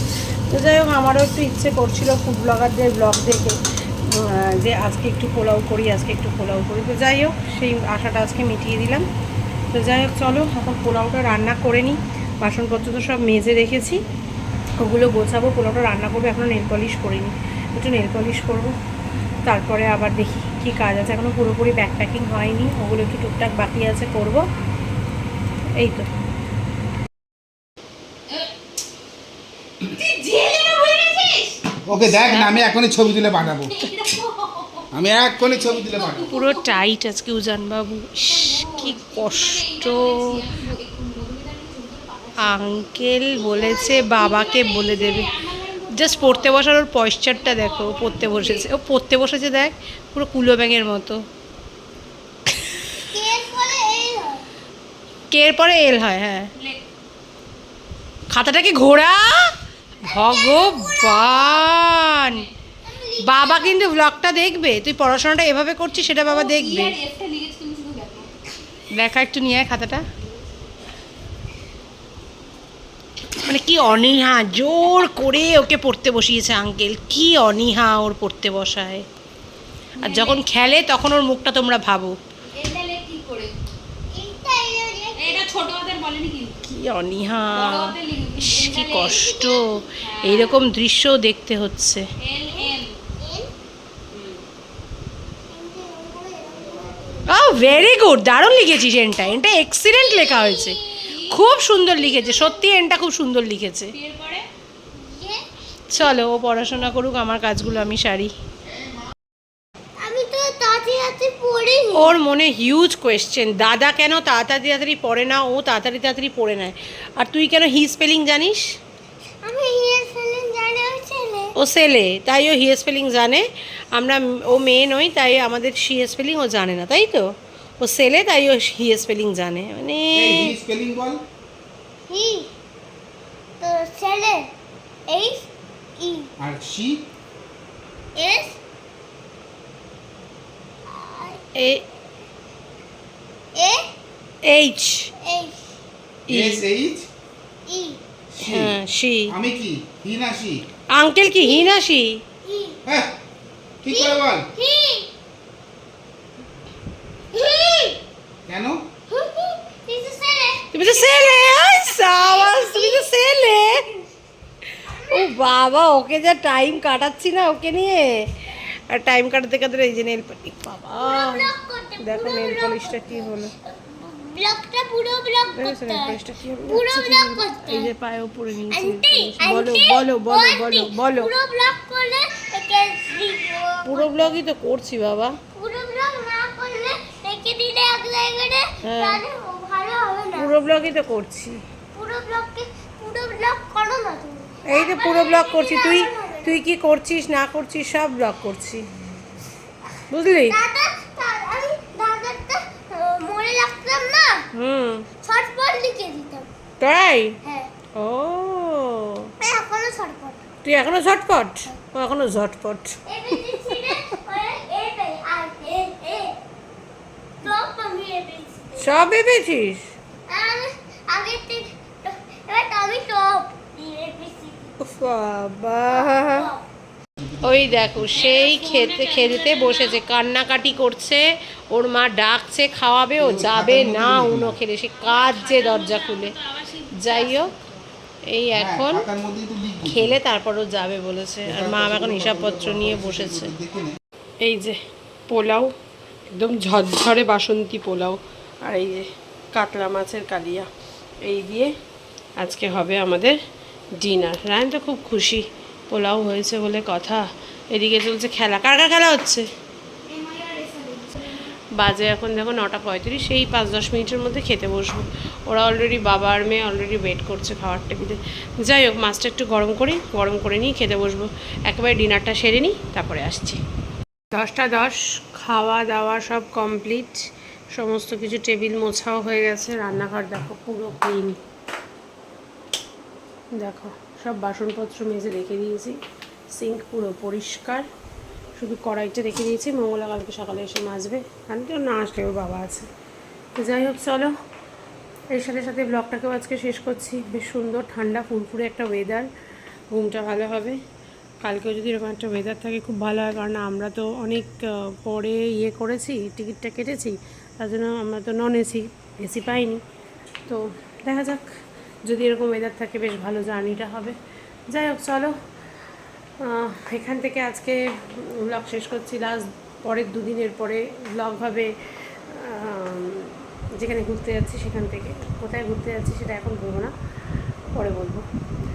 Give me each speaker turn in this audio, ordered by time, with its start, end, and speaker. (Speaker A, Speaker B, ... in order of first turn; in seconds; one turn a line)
Speaker A: 0.5-3.6
Speaker A: 4.1-9.0
Speaker A: 9.7-14.0
Speaker A: 14.8-18.7
Speaker A: 19.4-24.4
Speaker A: 25.8-26.1
Speaker B: 29.8-31.6
Speaker C: 31.9-33.7
Speaker A: 32.1-32.7
Speaker B: 33.5-34.9
Speaker C: 34.9-36.3
Speaker B: 35.5-36.8
Speaker A: 36.3-40.3
Speaker B: 38.2-46.6
Speaker A: 42.4-45.3
Speaker D: 43.4-44.0
Speaker A: 45.9-51.2
Speaker B: 47.3-48.6
Speaker D: 53.1-54.5
Speaker A: 55.3-56.5
Speaker B: 56.5-56.8
Speaker A: 58.3-59.5
Speaker A: 60.0-62.4
Speaker D: 60.1-61.5
Speaker D: 62.8-63.8
Speaker A: 63.2-67.0
Speaker B: 66.2-68.3
Speaker A: 68.9-70.0
Speaker A: 73.4-79.0
Speaker B: 80.0-80.4
Speaker A: 80.0-82.2
Speaker B: 82.5-83.5
Speaker D: 84.1-85.5
Speaker B: 85.2-86.7
Speaker A: 86.6-92.0
Speaker B: 87.5-89.2
Speaker D: 89.0-89.8
Speaker B: 90.0-90.6
Speaker B: 92.2-93.0
Speaker D: 92.5-93.5
Speaker D: 95.5-97.7
Speaker A: 97.3-103.9
Speaker D: 99.9-101.1
Speaker B: 101.0-101.5
Speaker D: 101.9-102.6
Speaker B: 103.9-104.5
Speaker D: 104.9-105.4
Speaker A: 105.9-108.3
Speaker D: 110.0-112.1
Speaker A: 111.9-118.6
Speaker D: 119.4-121.5
Speaker A: 121.6-127.3
Speaker A: 127.8-130.5
Speaker C: 130.1-131.2
Speaker D: 132.1-132.5
Speaker D: 133.6-134.5
Speaker D: 135.1-135.5
Speaker D: 136.0-136.3
Speaker C: 136.4-137.0
Speaker D: 138.2-138.6
Speaker D: 140.9-141.4
Speaker A: 141.6-141.8
Speaker D: 143.5-143.9
Speaker A: 144.4-145.1
Speaker D: 145.2-145.7
Speaker A: 146.3-146.6
Speaker C: 146.3-147.1
Speaker D: 147.7-148.0
Speaker C: 148.4-148.8
Speaker A: 148.4-149.3
Speaker C: 149.3-150.6
Speaker A: 150.9-152.2
Speaker D: 151.4-151.8
Speaker D: 152.4-152.8
Speaker C: 152.9-153.1
Speaker C: 153.8-154.5
Speaker D: 153.9-155.1
Speaker D: 157.3-158.0
Speaker C: 158.5-158.8
Speaker D: 159.1-161.2
Speaker A: 160.7-163.8
Speaker D: 162.1-163.1
Speaker D: 164.9-165.4
Speaker A: 165.1-168.1
Speaker A: 168.9-171.5
Speaker D: 170.9-177.9
Speaker A: 172.0-173.5
Speaker A: 175.5-181.3
Speaker D: 178.7-184.3
Speaker A: 183.8-185.4
Speaker D: 185.5-190.6
Speaker A: 188.8-189.2
Speaker A: 190.4-191.6
Speaker D: 191.9-196.6
Speaker A: 194.7-198.8
Speaker A: 200.1-200.6
Speaker D: 200.5-204.5
Speaker A: 204.5-205.1
Speaker D: 205.2-206.5
Speaker A: 206.8-207.4
Speaker D: 207.4-207.7
Speaker A: 207.9-209.3
Speaker D: 209.4-210.4
Speaker A: 210.6-213.0
Speaker D: 213.1-216.4
Speaker A: 213.7-214.1
Speaker D: 217.4-219.0
Speaker A: 218.8-219.8
Speaker D: 220.3-224.9
Speaker A: 224.8-226.5
Speaker D: 225.9-226.7
Speaker C: 227.2-228.3
Speaker A: 227.4-236.3
Speaker B: 228.1-230.0
Speaker C: 233.2-234.6
Speaker B: 235.0-237.8
Speaker A: 236.9-237.5
Speaker A: 238.3-239.0
Speaker C: 238.5-240.2
Speaker A: 239.8-243.5
Speaker C: 241.4-244.0
Speaker A: 244.4-244.8
Speaker A: 245.3-245.7
Speaker A: 246.3-250.7
Speaker A: 251.2-251.7
Speaker A: 252.4-253.3
Speaker A: 254.0-259.5
Speaker D: 260.1-261.4
Speaker A: 261.7-273.6
Speaker A: 274.3-277.2
Speaker A: 277.7-281.4
Speaker A: 283.6-286.0
Speaker A: 286.5-287.9
Speaker A: 288.6-292.9
Speaker A: 293.5-294.3
Speaker A: 295.3-299.3
Speaker A: 299.9-300.8
Speaker A: 301.4-309.8
Speaker A: 310.5-311.4
Speaker A: 312.1-314.1
Speaker A: 314.7-315.3
Speaker A: 316.4-317.8
Speaker A: 318.4-321.7
Speaker A: 322.3-326.9
Speaker A: 327.7-328.2